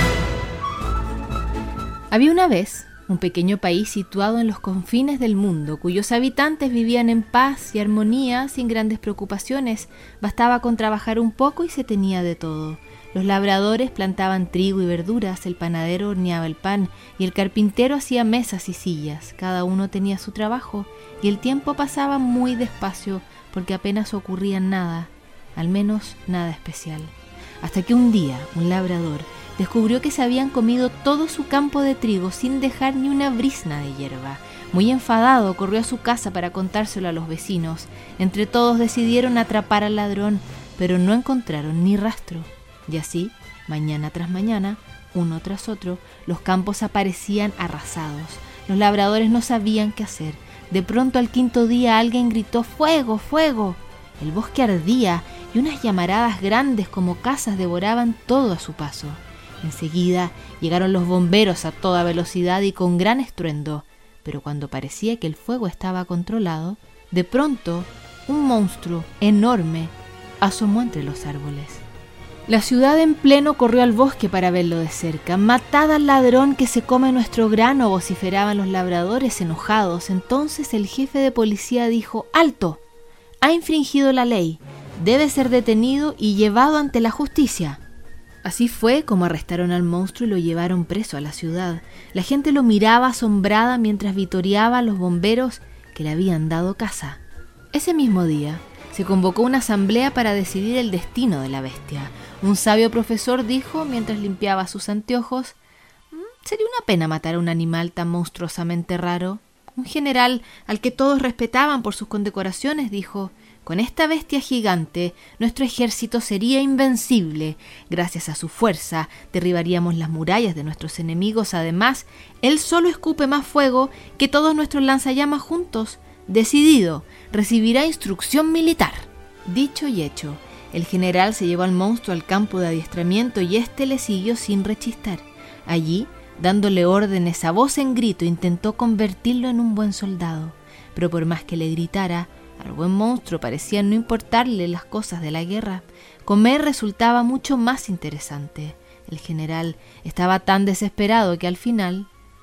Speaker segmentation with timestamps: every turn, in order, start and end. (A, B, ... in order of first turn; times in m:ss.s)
0:02.1-1:11.8 A
1:12.5-1:22.8 A
1:23.4-1:27.8 A
1:28.4-1:37.2 A
1:37.7-1:45.6 A
1:46.1-2:32.1 A